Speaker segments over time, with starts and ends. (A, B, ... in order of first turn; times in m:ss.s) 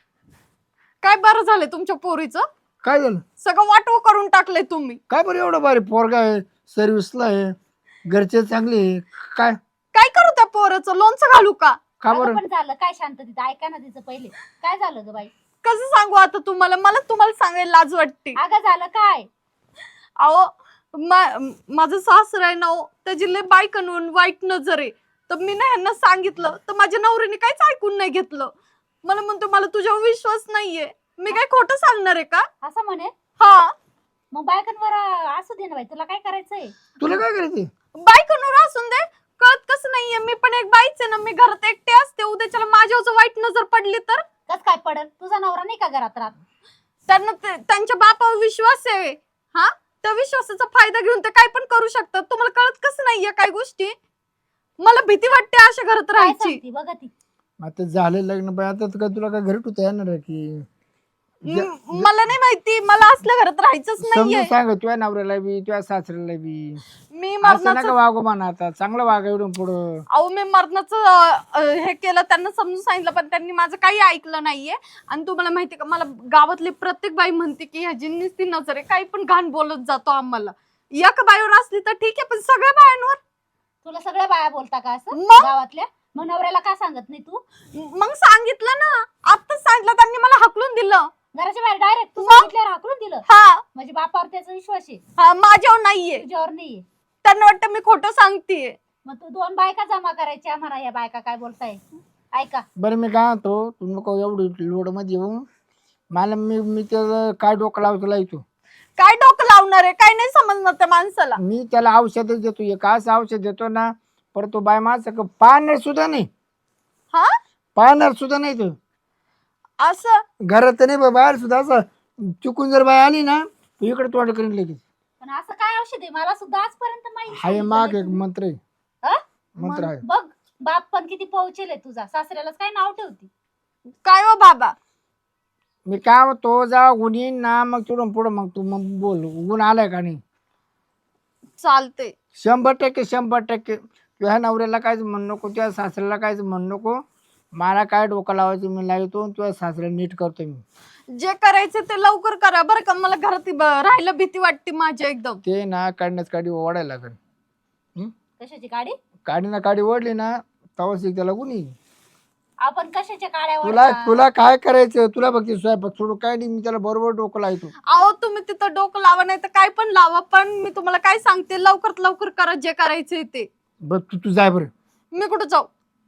0:01.0-0:02.5 A
0:02.8-0:03.2 B
0:03.4-0:05.0 A
0:05.1-0:07.5 B
0:08.0-0:09.6 B
0:09.9-0:11.8 A
0:12.0-0:12.4 B
0:12.1-0:15.3 C
0:15.6-0:18.4 A
0:18.4-0:19.3 C
0:20.2-0:28.5 A
0:29.0-0:32.4 A
0:32.6-0:33.1 C
0:33.4-0:33.7 A
0:34.3-0:36.8 C
0:37.0-0:37.7 B
0:38.0-0:44.2 A
0:44.5-0:46.3 C
0:47.1-0:53.9 A
0:54.8-0:56.6 A
0:56.2-0:57.1 C
0:57.6-1:00.6 B
1:01.4-1:04.5 A
1:01.5-1:02.1 B
1:04.0-1:06.8 B
1:07.1-1:07.9 A
1:07.4-1:10.0 B
1:10.1-1:23.2 A
1:23.8-1:27.4 C
1:25.1-1:25.5 A
1:27.7-1:31.1 A
1:31.3-1:35.0 C
1:32.2-1:32.5 A
1:33.2-1:33.6 A
1:35.2-1:36.2 A
1:36.2-1:36.8 C
1:37.2-1:38.8 A
1:39.0-1:41.8 C
1:42.3-1:42.6 C
1:42.8-1:45.4 B
1:46.1-1:48.4 B
1:49.0-1:51.4 A
1:51.4-1:56.3 B
1:57.8-1:58.8 B
1:59.8-2:00.2 A
2:00.4-2:04.8 B
2:05.2-2:08.2 C
2:07.3-2:08.6 B
2:09.6-2:10.0 B
2:09.9-2:13.3 C
2:14.0-2:14.7 A
2:15.9-2:20.2 B
2:21.6-2:22.1 A
2:22.4-2:27.0 B
2:27.6-2:30.6 B
2:31.2-2:35.4 A
2:35.4-2:37.2 B
2:38.4-2:38.9 C
2:39.3-2:41.7 B
2:42.6-2:44.3 C
2:43.6-2:47.7 B
2:47.9-2:53.5 A
2:53.8-2:54.7 B
2:55.1-2:55.7 A